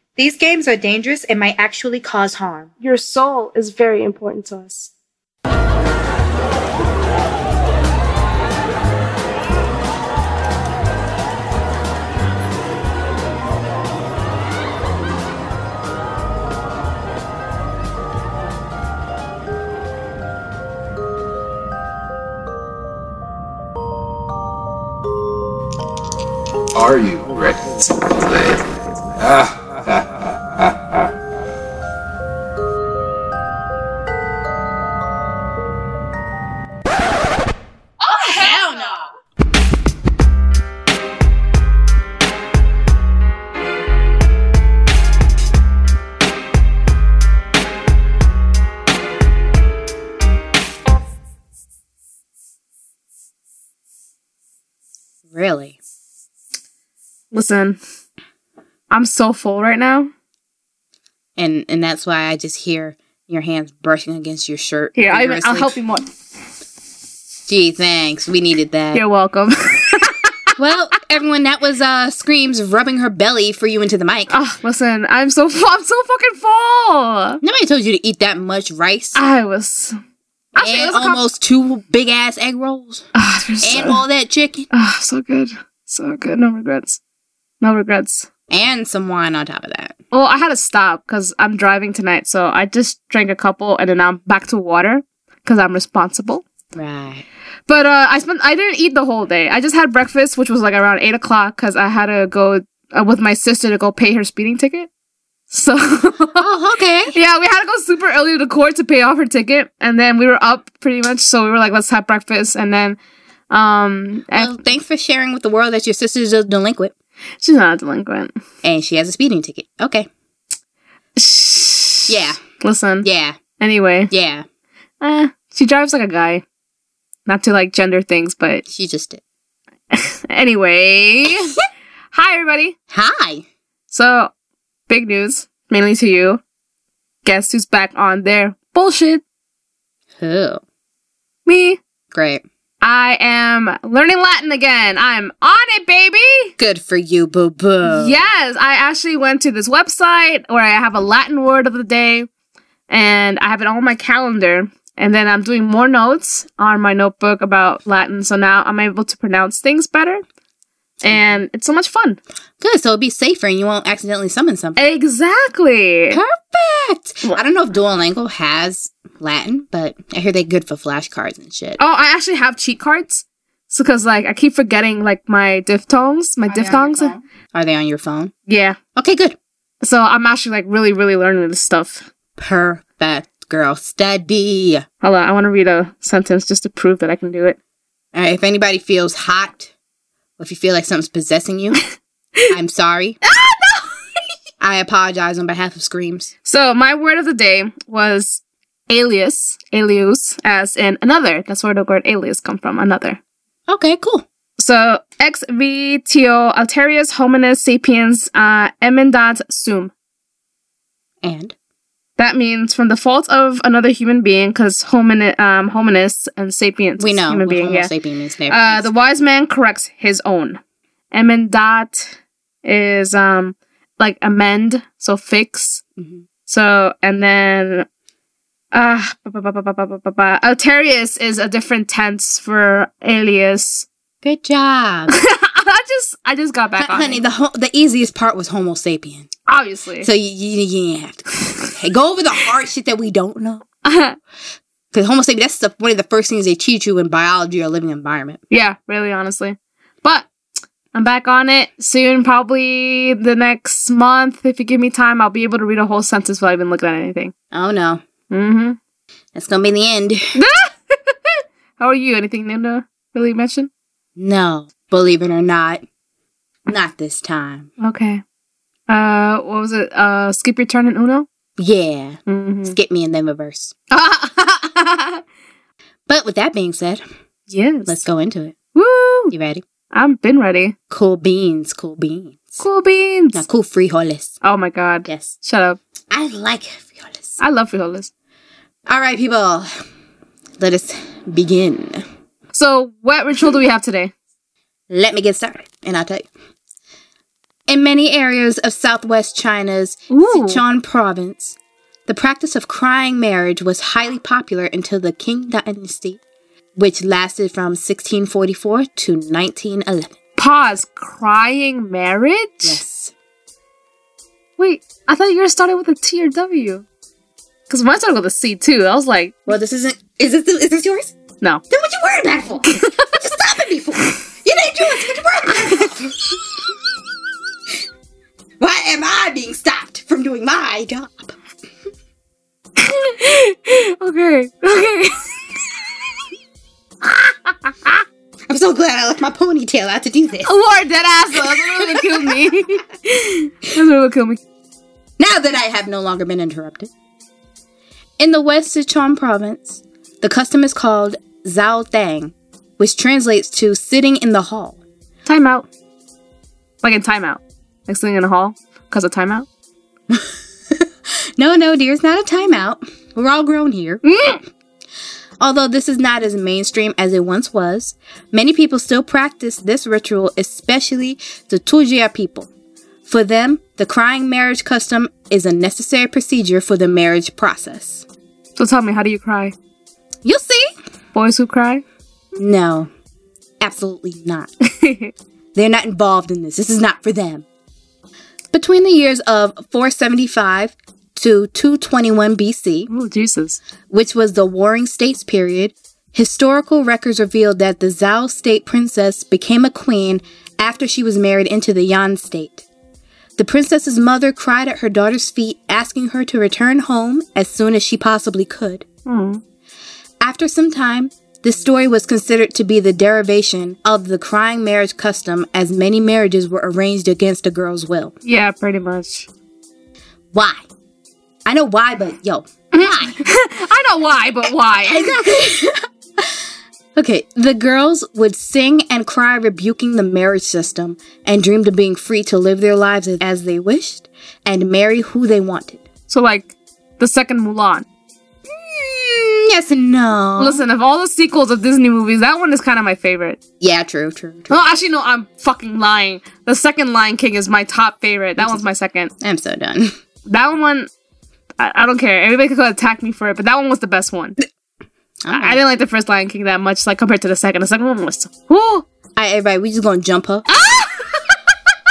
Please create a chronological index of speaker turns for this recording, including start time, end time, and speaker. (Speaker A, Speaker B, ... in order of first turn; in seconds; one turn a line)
Speaker A: 0.2-2.7
Speaker B: 2.8-4.9
Speaker C: 26.7-30.6
Speaker A: 38.1-39.0
Speaker A: 55.3-55.8
Speaker D: 57.3-57.8
Speaker D: 58.9-60.1
Speaker A: 61.4-65.8
Speaker D: 65.0-66.1
Speaker A: 67.5-69.0
Speaker D: 68.9-70.5
Speaker A: 70.6-74.3
Speaker D: 74.3-77.4
Speaker A: 77.4-79.2
Speaker D: 79.2-80.0
Speaker D: 80.6-81.2
Speaker A: 80.6-83.1
Speaker D: 83.2-84.0
Speaker A: 83.6-84.7
Speaker D: 84.7-87.0
Speaker D: 87.6-88.3
Speaker A: 88.5-90.0
Speaker D: 90.1-96.5
Speaker A: 96.8-97.2
Speaker D: 97.7-104.9
Speaker D: 105.5-106.5
Speaker A: 106.4-107.2
Speaker D: 107.1-113.0
Speaker D: 113.5-114.5
Speaker A: 114.3-116.9
Speaker D: 117.4-118.4
Speaker A: 118.6-120.1
Speaker D: 121.2-123.1
Speaker A: 122.1-122.4
Speaker A: 123.0-123.4
Speaker D: 123.6-124.1
Speaker A: 124.1-124.5
Speaker D: 125.0-126.4
Speaker D: 127.3-128.7
Speaker A: 128.7-129.2
Speaker D: 129.9-131.6
Speaker D: 132.1-132.8
Speaker A: 132.9-133.4
Speaker D: 133.9-134.3
Speaker D: 134.9-136.4
Speaker D: 137.2-139.2
Speaker A: 140.2-140.6
Speaker D: 141.5-141.8
Speaker A: 142.1-142.4
Speaker D: 142.8-146.5
Speaker A: 146.6-148.2
Speaker D: 147.8-152.3
Speaker D: 152.9-160.2
Speaker D: 161.0-162.2
Speaker A: 161.1-161.4
Speaker A: 162.6-164.8
Speaker D: 164.8-166.2
Speaker A: 166.1-171.8
Speaker D: 171.8-177.1
Speaker A: 176.5-178.3
Speaker D: 178.5-178.8
Speaker A: 179.0-179.4
Speaker D: 179.8-182.1
Speaker A: 182.4-184.8
Speaker D: 185.0-187.6
Speaker A: 188.1-189.7
Speaker A: 190.4-191.8
Speaker A: 192.5-193.2
Speaker D: 193.5-193.8
Speaker A: 194.6-196.3
Speaker D: 196.4-203.2
Speaker A: 203.7-204.2
Speaker D: 204.6-209.9
Speaker A: 211.2-211.6
Speaker D: 212.2-217.9
Speaker A: 217.0-218.9
Speaker D: 218.5-220.6
Speaker D: 221.1-225.8
Speaker A: 226.0-226.3
Speaker D: 226.5-227.9
Speaker D: 228.7-233.9
Speaker A: 234.2-235.1
Speaker D: 235.1-237.2
Speaker A: 236.8-239.3
Speaker D: 239.5-240.1
Speaker A: 240.0-243.7
Speaker D: 243.8-244.2
Speaker A: 244.9-248.4
Speaker D: 248.5-250.3
Speaker D: 250.9-257.3
Speaker A: 257.5-258.0
Speaker D: 258.3-258.8
Speaker A: 259.4-260.4
Speaker D: 260.4-263.7
Speaker A: 264.2-265.8
Speaker A: 266.7-267.7
Speaker D: 267.8-268.2
Speaker D: 268.9-271.3
Speaker A: 271.6-272.2
Speaker D: 272.3-272.8
Speaker A: 272.7-273.7
Speaker D: 273.9-275.2
Speaker A: 276.1-277.0
Speaker D: 277.5-278.0
Speaker A: 277.9-278.6
Speaker D: 278.8-279.3
Speaker A: 279.3-279.6
Speaker D: 279.9-280.8
Speaker A: 280.9-282.6
Speaker D: 282.6-283.4
Speaker A: 283.3-284.3
Speaker D: 284.4-285.8
Speaker A: 285.1-285.3
Speaker A: 286.1-287.4
Speaker D: 287.4-288.1
Speaker A: 288.9-289.7
Speaker A: 290.6-292.0
Speaker D: 292.5-294.1
Speaker A: 294.9-296.2
Speaker A: 297.7-301.6
Speaker D: 300.1-300.6
Speaker A: 302.1-306.2
Speaker A: 306.8-310.1
Speaker D: 310.4-312.8
Speaker A: 312.6-313.1
Speaker D: 314.6-316.9
Speaker D: 317.7-319.5
Speaker A: 319.5-321.1
Speaker A: 321.7-326.7
Speaker D: 322.7-323.1
Speaker A: 328.6-331.3
Speaker D: 332.8-335.5
Speaker A: 338.5-340.5
Speaker D: 340.4-344.4
Speaker A: 341.3-342.4
Speaker A: 345.2-346.9
Speaker A: 348.2-354.8
Speaker D: 355.3-355.7
Speaker D: 356.8-359.5
Speaker A: 360.1-360.9
Speaker A: 361.4-364.0
Speaker D: 364.0-364.4
Speaker A: 365.4-372.5
Speaker A: 373.1-378.1
Speaker D: 378.6-379.6
Speaker A: 380.2-380.7
Speaker D: 381.1-381.8
Speaker A: 382.4-382.9
Speaker A: 383.6-384.5
Speaker D: 384.7-385.1
Speaker A: 385.6-387.5
Speaker A: 388.5-392.9
Speaker D: 392.9-393.6
Speaker A: 393.9-402.6
Speaker A: 403.4-408.9
Speaker D: 409.1-409.4
Speaker A: 410.2-418.1
Speaker D: 418.2-419.3
Speaker A: 420.3-420.6
Speaker A: 421.5-423.2
Speaker D: 422.7-425.4
Speaker A: 424.9-426.3
Speaker A: 426.9-435.8
Speaker D: 436.1-437.9
Speaker A: 438.5-440.6
Speaker D: 440.4-443.4
Speaker A: 443.6-444.6
Speaker D: 444.5-449.1
Speaker A: 449.2-449.9
Speaker D: 450.3-450.9
Speaker D: 451.6-454.4
Speaker A: 455.2-455.6
Speaker D: 455.3-458.9
Speaker A: 459.2-460.5
Speaker D: 460.5-461.4